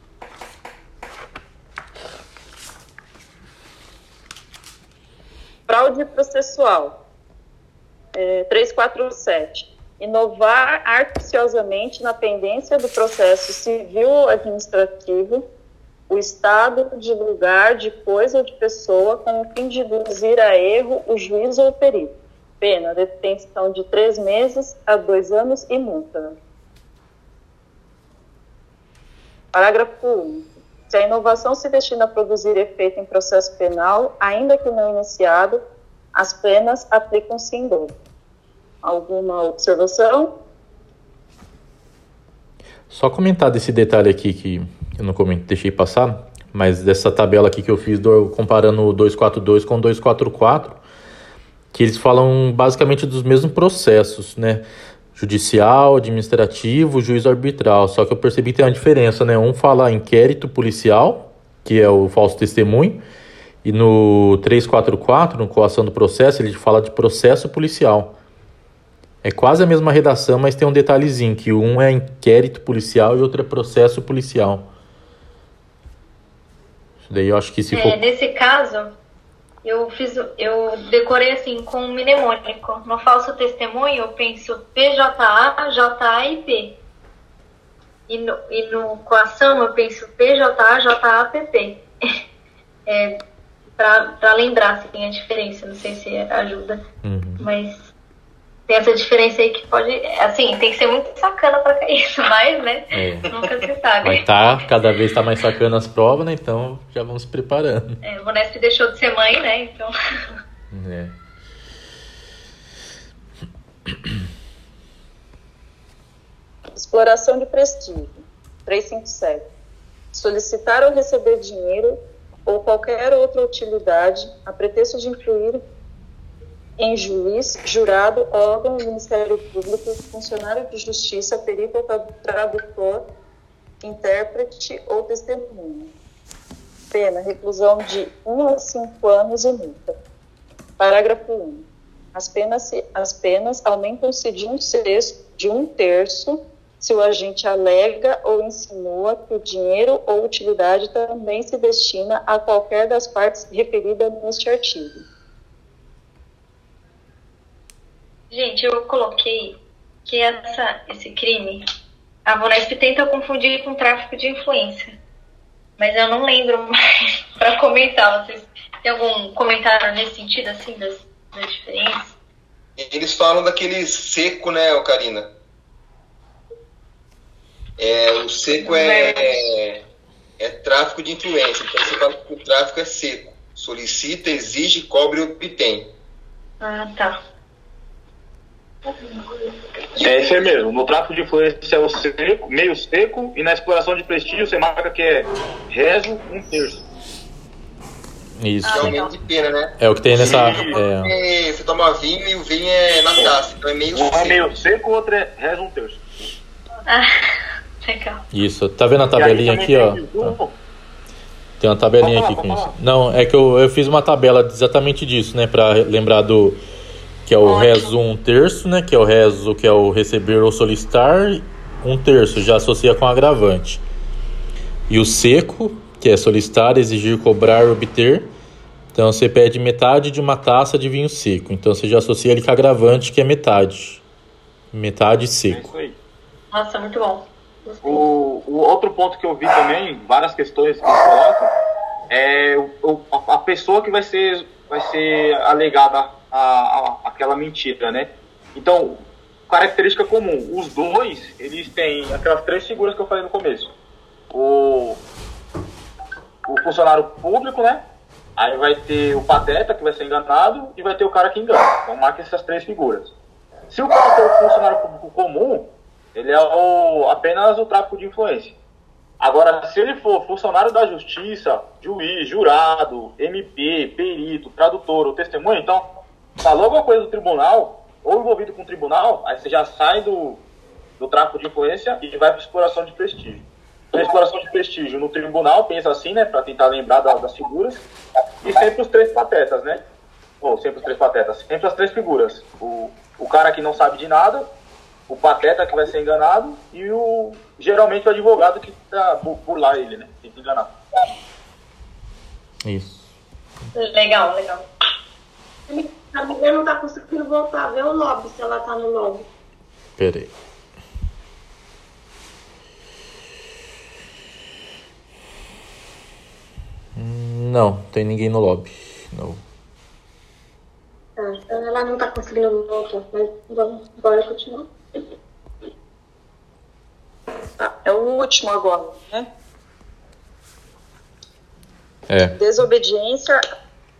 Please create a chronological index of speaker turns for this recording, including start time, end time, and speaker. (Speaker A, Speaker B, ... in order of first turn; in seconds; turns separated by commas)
Speaker A: 5.7-7.0, Speaker A: 8.1-15.4, Speaker A: 16.1-26.3, Speaker A: 29.5-35.6, Speaker A: 36.1-37.9, Speaker A: 38.8-40.4, Speaker B: 42.9-50.8, Speaker B: 51.7-54.6, Speaker B: 55.1-63.0, Speaker B: 63.6-68.2, Speaker B: 69.2-74.7, Speaker B: 77.0-78.0, Speaker C: 77.7-78.9, Speaker C: 79.6-86.8, Speaker C: 88.1-91.8, Speaker C: 92.9-93.2, Speaker C: 93.8-96.8, Speaker B: 97.0-97.5, Speaker C: 97.4-97.9, Speaker C: 98.7-104.2, Speaker B: 102.9-103.3, Speaker B: 104.0-108.0, Speaker C: 108.0-109.9, Speaker B: 110.7-111.2, Speaker A: 116.7-119.4, Speaker A: 120.1-125.6, Speaker A: 126.8-133.1, Speaker A: 133.8-135.9, Speaker A: 136.9-139.9, Speaker A: 140.8-155.1, Speaker C: 158.3-161.6, Speaker C: 162.2-164.9, Speaker C: 165.8-166.7, Speaker C: 167.4-172.1, Speaker D: 172.8-175.3, Speaker D: 177.8-179.8, Speaker C: 178.6-179.3, Speaker D: 180.4-185.9, Speaker C: 186.6-187.2, Speaker C: 189.0-189.5, Speaker E: 190.0-196.8, Speaker B: 198.4-199.0, Speaker C: 198.6-199.1, Speaker D: 198.6-204.5, Speaker B: 199.8-201.1, Speaker E: 200.2-200.8, Speaker E: 203.9-206.0, Speaker C: 206.9-208.2, Speaker B: 208.3-210.3, Speaker E: 209.2-210.5, Speaker B: 211.6-216.6, Speaker E: 212.0-212.7, Speaker B: 217.2-223.8, Speaker C: 217.4-217.9, Speaker B: 224.9-228.3, Speaker B: 228.9-234.0, Speaker B: 234.7-235.7, Speaker E: 235.5-236.0, Speaker C: 236.5-238.1, Speaker E: 237.8-241.5, Speaker E: 242.1-253.7, Speaker E: 254.3-255.0, Speaker E: 256.4-257.8, Speaker E: 258.4-263.1, Speaker E: 263.7-268.5, Speaker E: 269.2-275.9, Speaker E: 276.4-280.4, Speaker E: 281.0-287.8, Speaker E: 288.4-289.8, Speaker E: 290.4-294.5, Speaker E: 295.1-300.7, Speaker B: 302.6-303.1, Speaker C: 303.7-304.6, Speaker F: 305.7-309.3, Speaker B: 310.0-310.3, Speaker B: 316.9-319.4, Speaker F: 321.2-324.7, Speaker A: 327.6-329.3, Speaker B: 332.1-332.4, Speaker A: 332.3-333.4